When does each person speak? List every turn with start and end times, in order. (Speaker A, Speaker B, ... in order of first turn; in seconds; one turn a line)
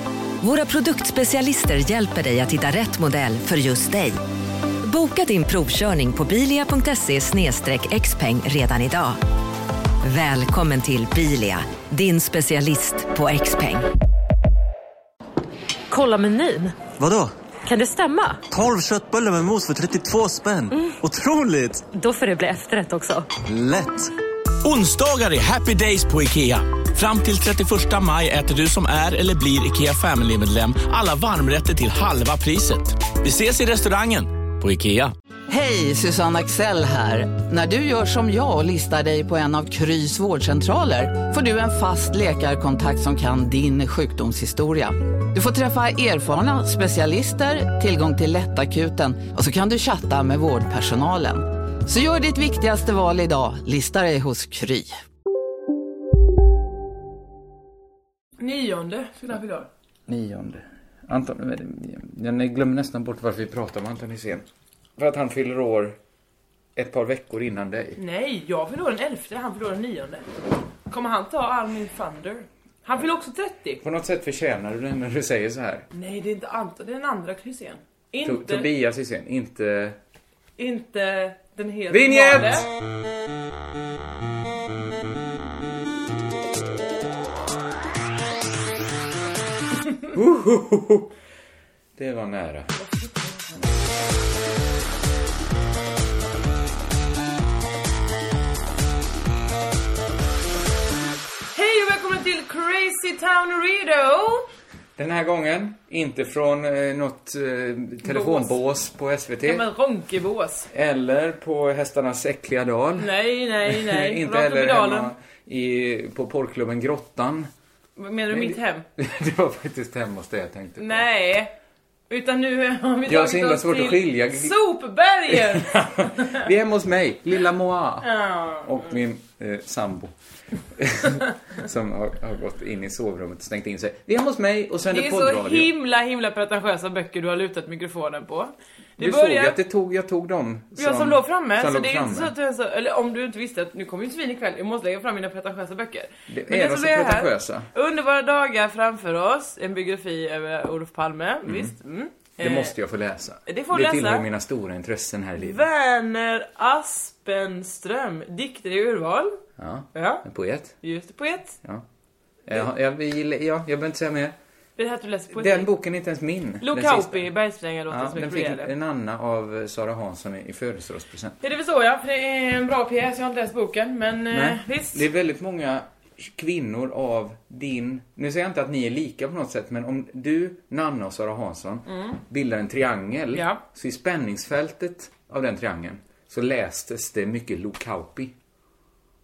Speaker A: 0.4-4.2
Speaker A: 4.8-9.2
Speaker A: 10.0-13.9
Speaker B: 15.9-16.8
Speaker C: 16.9-17.3
Speaker B: 17.6-18.4
Speaker C: 18.5-21.9
Speaker B: 21.9-23.3
Speaker C: 23.4-24.1
Speaker D: 24.6-35.1
Speaker E: 35.5-54.9
Speaker F: 58.4-59.7
Speaker G: 60.1-64.5
Speaker G: 65.0-66.0
Speaker G: 66.8-68.0
Speaker F: 68.0-70.3
Speaker F: 70.9-73.8
Speaker G: 73.8-75.9
Speaker F: 75.9-78.7
Speaker G: 78.2-80.0
Speaker F: 80.6-82.7
Speaker G: 81.9-82.7
Speaker G: 90.1-91.1
Speaker G: 92.0-92.8
Speaker F: 92.8-93.6
Speaker F: 101.5-104.5
Speaker G: 105.0-109.6
Speaker F: 108.0-108.5
Speaker F: 109.4-110.7
Speaker G: 110.7-117.5
Speaker F: 113.0-115.1
Speaker F: 118.0-118.8
Speaker G: 118.3-121.0
Speaker F: 120.8-121.5
Speaker F: 122.1-126.4
Speaker G: 123.0-124.6
Speaker G: 125.3-130.1
Speaker F: 128.0-128.9
Speaker G: 130.7-135.7
Speaker F: 134.9-139.6
Speaker G: 139.0-142.3
Speaker F: 140.8-152.7
Speaker G: 146.3-147.7
Speaker G: 151.4-151.7
Speaker G: 152.4-155.6
Speaker F: 153.4-154.2
Speaker F: 155.4-159.4
Speaker G: 159.6-160.8
Speaker F: 159.9-160.2
Speaker F: 160.8-161.6
Speaker G: 162.4-164.3
Speaker F: 164.8-165.7
Speaker G: 165.3-167.3
Speaker F: 166.6-168.7
Speaker G: 167.9-171.4
Speaker F: 171.4-175.0
Speaker G: 174.3-188.3
Speaker F: 181.9-182.2
Speaker F: 183.3-183.6